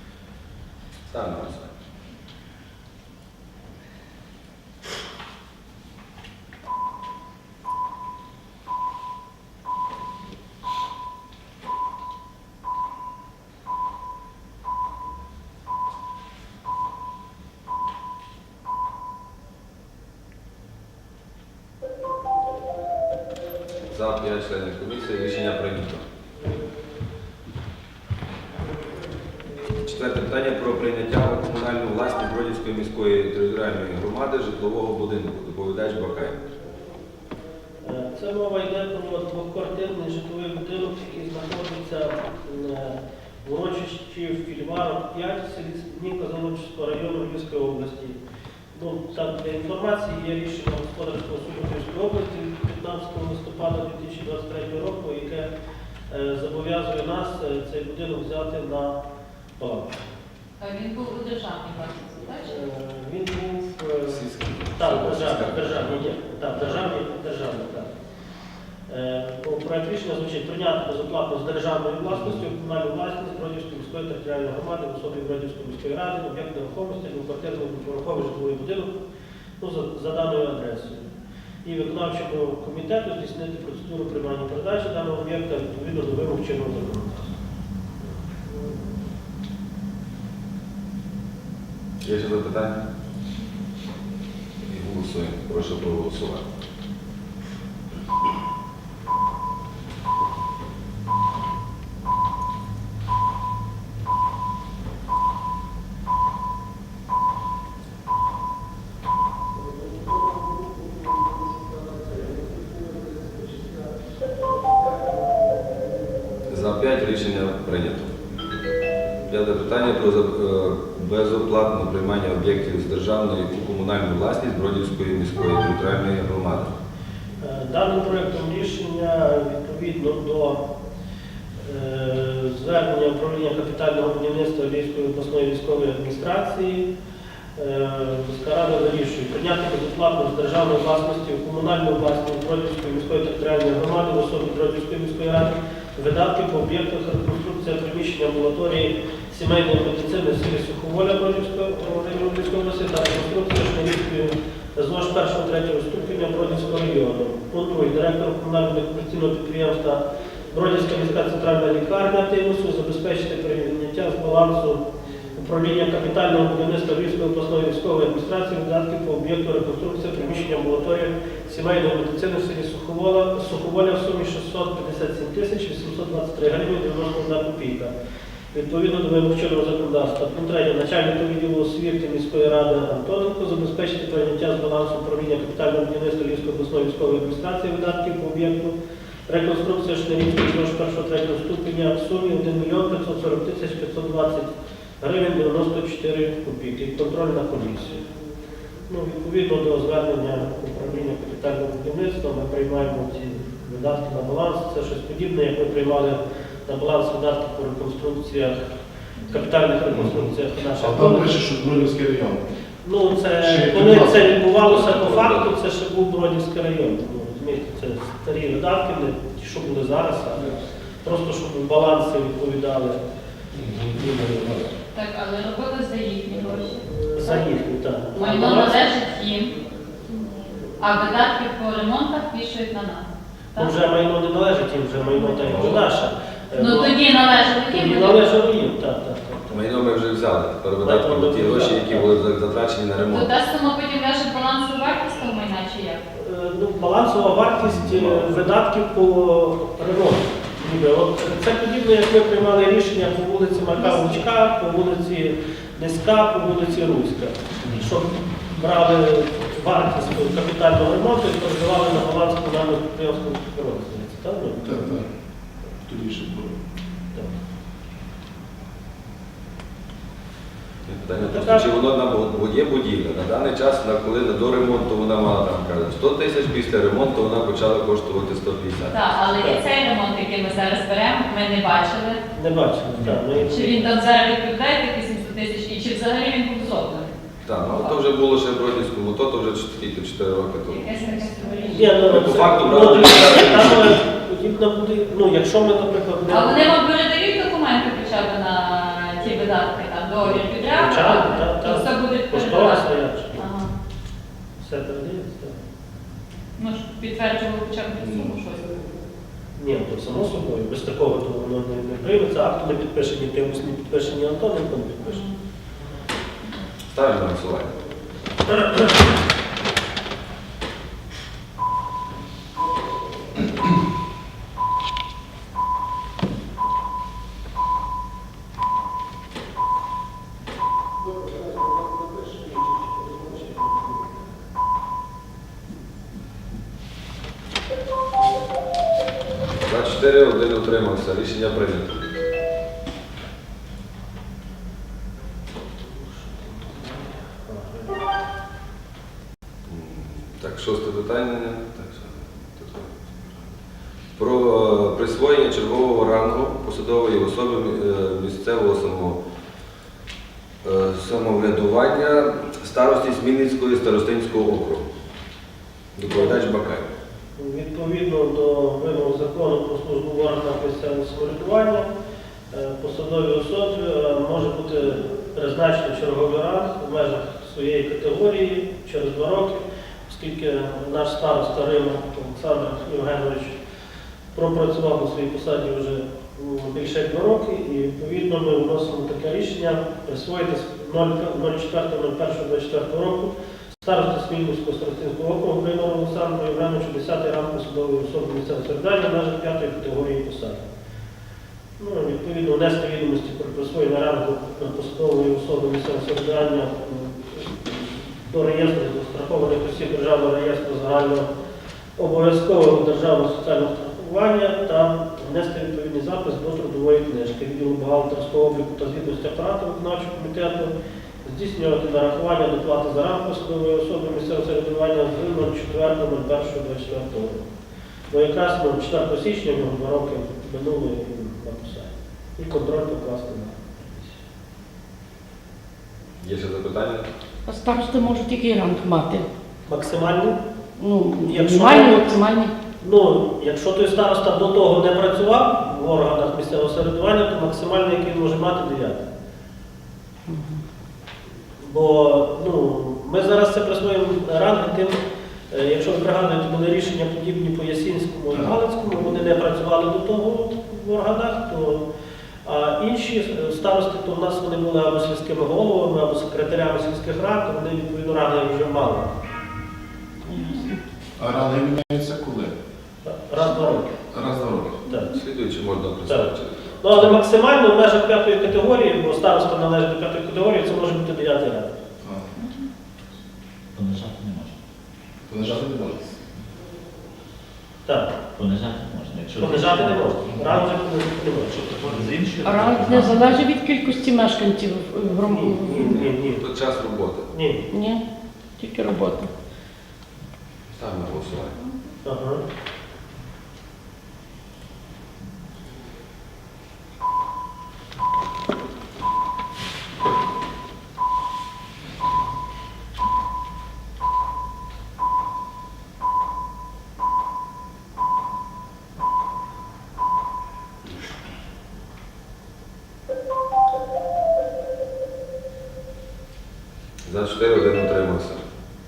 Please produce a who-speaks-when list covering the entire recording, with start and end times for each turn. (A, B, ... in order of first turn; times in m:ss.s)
0:01.1-0:01.7 A
0:23.9-0:26.0 A
0:29.8-0:36.4 A
0:37.8-0:48.2 B
0:48.7-0:55.5 B
0:56.1-0:59.0 B
0:59.6-1:00.0 B
1:00.6-1:02.6 C
1:02.5-1:04.2 B
1:04.1-1:06.0 A
1:04.8-1:07.9 B
1:06.6-1:06.8 A
1:08.9-1:19.0 B
1:19.6-1:21.1 B
1:21.6-1:27.3 B
1:32.0-1:32.8 A
1:34.6-1:36.4 A
1:56.5-1:58.1 A
1:59.3-2:06.7 A
2:07.4-2:10.6 B
2:11.6-2:16.9 B
2:17.6-2:44.8 B
2:45.4-2:57.9 B
2:58.5-3:08.7 B
3:09.3-3:18.0 B
3:18.9-3:28.6 B
3:29.3-3:31.4 B
3:29.9-3:32.4 D
3:32.8-3:43.0 B
3:33.4-3:34.4 D
3:34.5-3:35.6 A
3:43.8-3:44.7 B
3:44.9-3:47.6 C
3:47.1-3:49.0 B
3:48.1-3:49.6 C
3:50.8-3:53.7 C
3:53.6-3:57.0 B
3:55.2-3:55.5 C
3:55.5-3:55.8 A
3:56.5-3:58.4 C
3:57.7-3:59.6 B
3:59.5-4:03.3 A
4:00.8-4:02.1 B
4:03.1-4:06.0 C
4:06.1-4:24.9 B
4:07.6-4:08.4 A
4:24.6-4:25.1 D
4:25.8-4:26.6 D
4:30.9-4:39.0 A
4:31.2-4:31.7 B
4:38.9-4:42.2 C
4:39.4-4:39.6 B
4:42.3-4:43.9 B
4:43.4-4:47.1 C
4:47.4-4:50.9 A
4:50.6-4:52.1 C
4:51.7-4:56.7 B
4:52.0-4:54.0 A
4:56.3-5:03.7 C
5:00.2-5:03.5 B
5:04.6-5:05.6 B
5:06.6-5:08.8 C
5:09.6-5:15.2 B
5:15.0-5:15.3 C
5:16.9-5:17.8 A
5:39.6-5:42.1 A
5:45.9-5:48.0 B
5:49.7-5:53.4 A
5:54.2-5:59.2 A
6:00.6-6:04.8 A
6:06.0-6:06.9 A
6:06.1-6:06.4 B
6:07.4-6:11.9 B
6:12.5-6:23.6 B
6:24.3-6:40.6 B
6:41.8-6:51.3 B
6:52.0-7:00.7 B
7:01.2-7:07.5 B
7:08.1-7:14.2 B
7:16.2-7:17.1 A
7:17.5-7:19.3 E
7:19.7-7:20.4 B
7:20.8-7:22.5 E
7:21.2-7:22.2 B
7:22.8-7:29.0 B
7:30.3-7:30.6 E
7:31.6-7:35.0 B
7:35.5-7:41.9 B
7:42.4-7:49.1 B
7:50.3-7:50.8 E
7:51.2-7:52.6 D
7:53.0-7:53.9 B
7:54.1-7:54.8 D
7:54.9-7:55.2 B
7:55.1-7:56.6 A
7:56.1-8:01.8 B
8:02.0-8:02.3 D
8:03.8-8:04.5 F
8:05.3-8:06.1 D
8:07.8-8:08.1 B
8:08.4-8:10.6 F
8:09.4-8:11.6 B
8:11.5-8:13.5 F
8:12.4-8:15.9 E
8:15.2-8:16.4 B
8:15.7-8:17.3 A
8:17.3-8:17.6 B
8:17.7-8:18.0 E
8:18.6-8:19.3 E
8:20.7-8:21.6 A
8:22.0-8:22.4 B
8:47.0-8:48.4 A